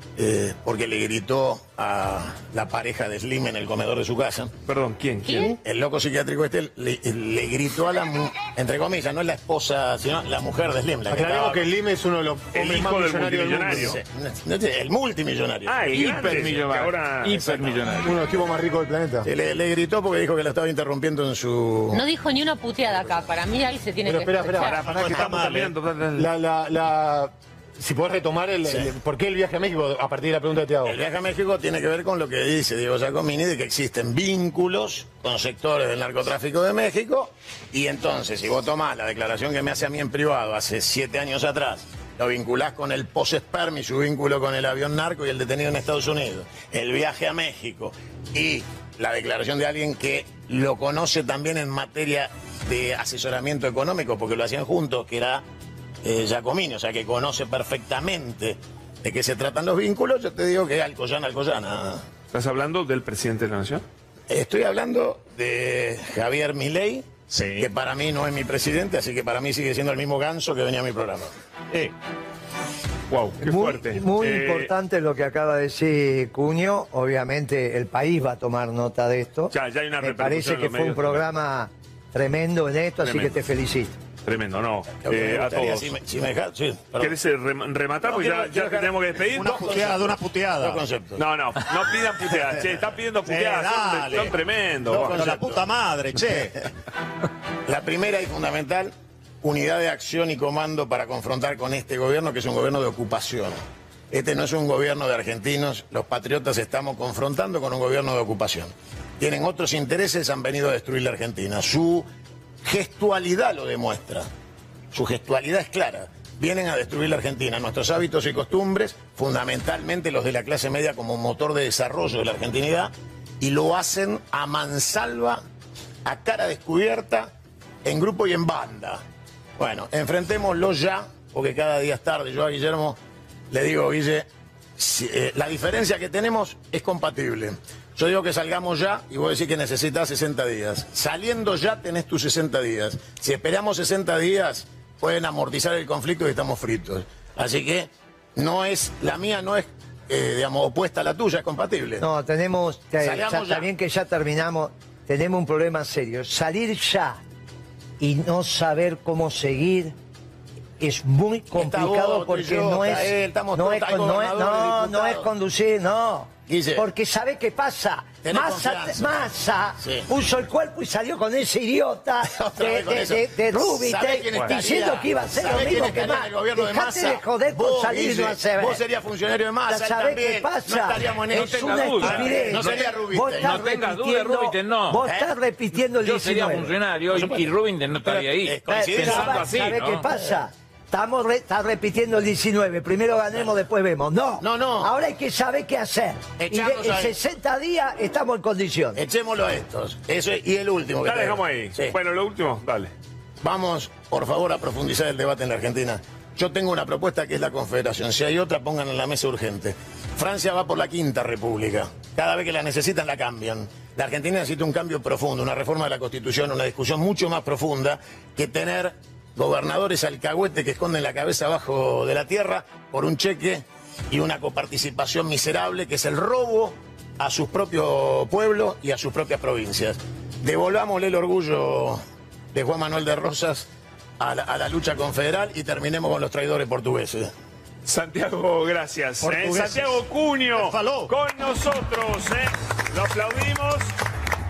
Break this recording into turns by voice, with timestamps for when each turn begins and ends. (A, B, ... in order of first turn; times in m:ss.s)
0:00.2-0:04.5 A
0:04.7-0:05.6 B
0:05.2-0:05.6 C
0:05.4-0:11.6 A
0:11.1-0:14.0 D
0:12.5-0:14.0 B
0:13.7-0:15.8 A
0:15.6-0:17.8 B
0:15.9-0:18.1 E
0:18.0-0:19.3 D
0:19.2-0:22.0 A
0:21.9-0:24.9 C
0:24.0-0:25.6 D
0:24.6-0:26.3 B
0:24.9-0:25.6 A
0:25.0-0:25.7 F
0:26.2-0:31.0 D
0:30.8-0:55.4 A
0:56.0-1:02.0 A
1:02.3-1:03.8 B
1:04.3-1:11.3 A
1:07.3-1:07.7 F
1:13.1-1:14.7 B
1:13.4-1:24.0 G
1:19.5-1:21.2 B
1:23.0-1:23.4 B
1:24.2-1:25.9 B
1:25.0-1:27.1 A
1:27.0-1:29.7 B
1:28.0-1:30.8 F
1:29.4-1:31.2 A
1:31.2-1:35.2 B
1:33.2-1:34.4 F
1:34.9-1:36.6 F
1:34.9-1:35.6 A
1:37.7-1:43.6 A
1:44.1-1:52.1 A
1:52.6-1:54.3 A
1:54.9-2:05.4 A
2:06.0-2:07.3 A
2:07.8-2:09.0 A
2:09.6-2:13.0 A
2:13.5-2:32.0 A
2:32.0-2:37.2 G
2:33.0-2:33.7 A
2:38.0-2:39.9 G
2:40.8-2:58.8 G
2:41.5-2:45.3 A
2:46.5-2:46.9 A
2:48.2-2:49.2 A
2:49.8-2:50.1 A
2:52.2-3:03.7 A
2:54.3-2:54.6 B
2:59.7-3:06.7 G
3:01.3-3:05.0 E
3:02.0-3:02.5 B
3:05.0-3:05.3 A
3:06.0-3:10.0 E
3:07.1-3:07.5 A
3:08.0-3:09.5 A
3:08.6-3:19.0 G
3:14.4-3:14.9 A
3:16.4-3:17.1 A
3:18.9-3:21.9 A
3:21.0-3:22.9 B
3:23.4-3:52.0 A
3:52.5-3:53.7 A
3:54.2-3:57.3 A
3:57.8-4:03.9 B
3:59.2-4:01.1 F